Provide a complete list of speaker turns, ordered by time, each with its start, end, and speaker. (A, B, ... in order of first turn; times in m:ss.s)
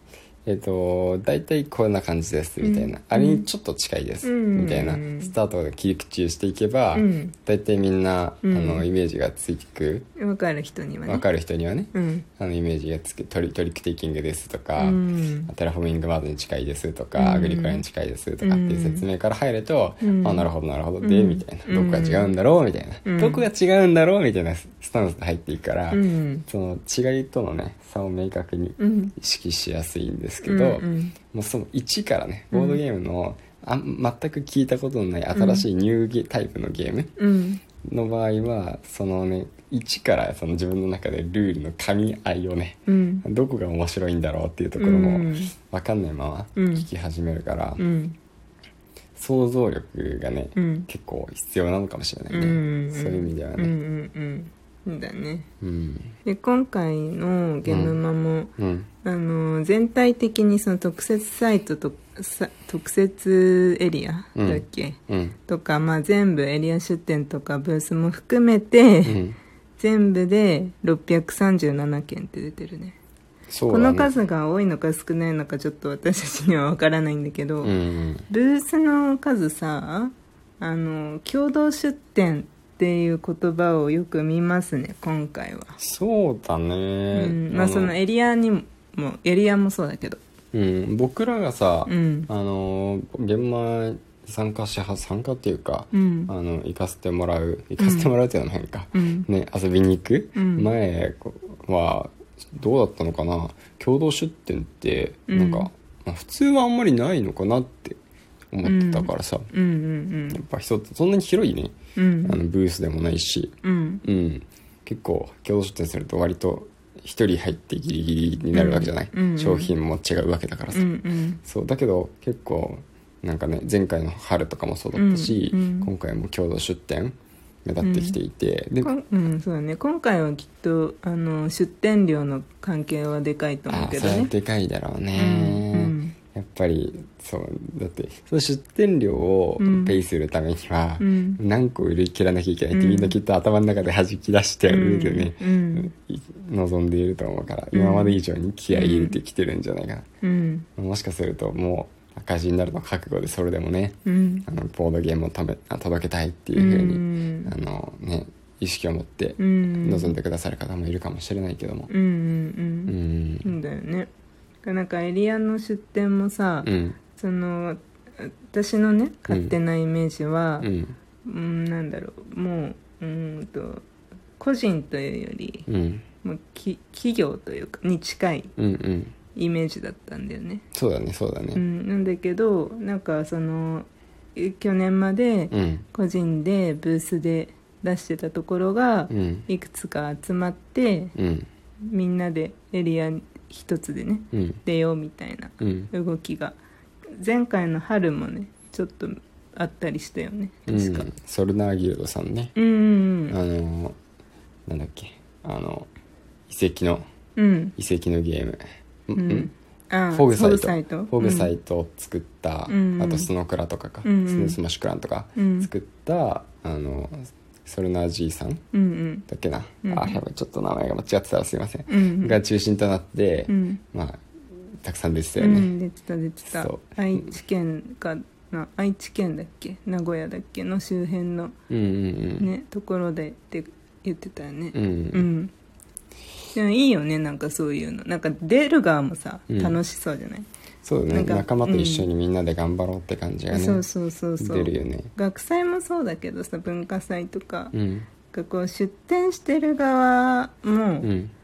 0:00.4-0:10.1 A
0:02.6-0:03.4 B
0:04.2-0:05.3 B
0:06.9-0:07.3 B
0:08.4-0:08.8 B
0:10.2-0:11.2 B
0:11.1-0:37.1 A
0:11.9-0:12.2 B
0:14.8-0:15.5 B
0:17.2-0:17.8 B
0:18.4-0:19.0 B
0:20.0-0:20.5 B
0:21.0-0:22.4 B
0:23.0-0:23.4 B
0:25.9-0:26.4 B
0:28.8-0:29.1 B
0:30.4-0:31.1 B
0:32.5-0:32.8 B
0:35.3-0:35.6 B
0:37.2-0:37.6 B
0:37.8-0:47.8 A
0:42.9-0:43.2 B
0:44.8-0:45.5 B
0:46.6-0:46.8 B
0:47.8-0:48.2 B
0:49.1-0:53.7 A
0:50.6-0:50.9 B
0:52.3-0:55.5 B
0:55.6-0:56.1 A
0:56.2-0:58.5 B
0:57.6-0:58.0 A
0:58.6-0:58.9 A
0:59.0-1:09.2 B
1:04.4-1:05.4 A
1:09.0-1:09.4 A
1:09.8-1:13.0 B
1:13.5-1:14.1 A
1:13.7-1:17.7 B
1:17.6-1:18.2 A
1:18.3-1:25.8 B
1:25.8-1:27.9 A
1:27.1-1:30.2 B
1:30.5-1:48.0 A
1:31.9-1:32.3 B
1:35.9-1:36.3 B
1:37.8-1:38.1 B
1:38.9-1:39.3 B
1:40.4-1:40.7 B
1:45.3-1:45.7 B
1:48.5-1:49.5 A
1:48.6-1:50.4 B
1:50.3-2:00.9 A
1:52.0-1:52.4 B
1:53.6-1:54.0 B
1:58.5-1:59.7 B
2:00.7-2:01.4 B
2:01.4-2:08.9 A
2:04.9-2:05.9 B
2:07.8-2:08.2 B
2:08.8-2:14.3 B
2:13.7-2:30.0 A
2:15.2-2:16.2 B
2:19.6-2:20.0 B
2:21.0-2:21.4 B
2:22.7-2:23.2 B
2:24.7-2:25.9 B
2:27.7-2:28.2 B
2:28.7-2:29.2 B
2:30.2-2:30.7 B
2:30.8-2:41.9 A
2:34.0-2:34.4 B
2:36.5-2:37.5 B
2:39.4-2:40.2 B
2:41.9-2:44.1 B
2:42.9-2:43.5 A
2:44.6-2:50.7 B
2:46.6-2:47.0 A
2:49.3-2:49.6 A
2:50.6-2:51.0 A
2:51.2-2:53.8 B
2:54.4-2:55.7 B
2:55.7-2:56.0 A
2:56.2-2:58.5 B
2:58.6-2:59.1 A
2:59.3-3:00.6 B
3:00.7-3:01.6 A
3:01.5-3:11.1 B
3:05.5-3:05.8 A
3:09.1-3:09.5 A
3:11.2-3:11.5 A
3:11.8-3:16.6 B
3:14.3-3:14.6 A
3:15.6-3:15.9 A
3:17.2-3:21.1 B
3:20.7-3:22.5 A
3:22.6-3:23.4 B
3:23.3-3:24.0 A
3:24.7-3:25.9 A
3:26.5-3:27.0 A
3:27.4-3:27.7 B
3:27.8-3:29.5 A
3:29.1-3:31.5 B
3:30.1-3:38.6 A
3:32.7-3:33.3 B
3:34.0-3:34.6 B
3:35.4-3:35.7 B
3:38.7-3:39.2 B
3:39.3-3:44.2 A
3:39.8-3:40.2 B
3:41.9-3:42.4 B
3:43.5-3:43.8 B
3:44.8-3:45.7 A
3:45.4-3:51.5 B
3:46.4-3:47.3 A
3:51.7-3:52.5 A
3:52.4-3:55.5 B
3:54.7-3:55.3 A
3:56.5-4:00.5 B
3:59.5-3:59.8 A
4:00.8-4:03.8 A
4:01.1-4:02.1 B
4:03.5-4:07.7 B
4:04.4-4:05.1 A
4:07.7-4:08.1 A
4:08.3-4:11.1 B
4:11.0-4:11.3 A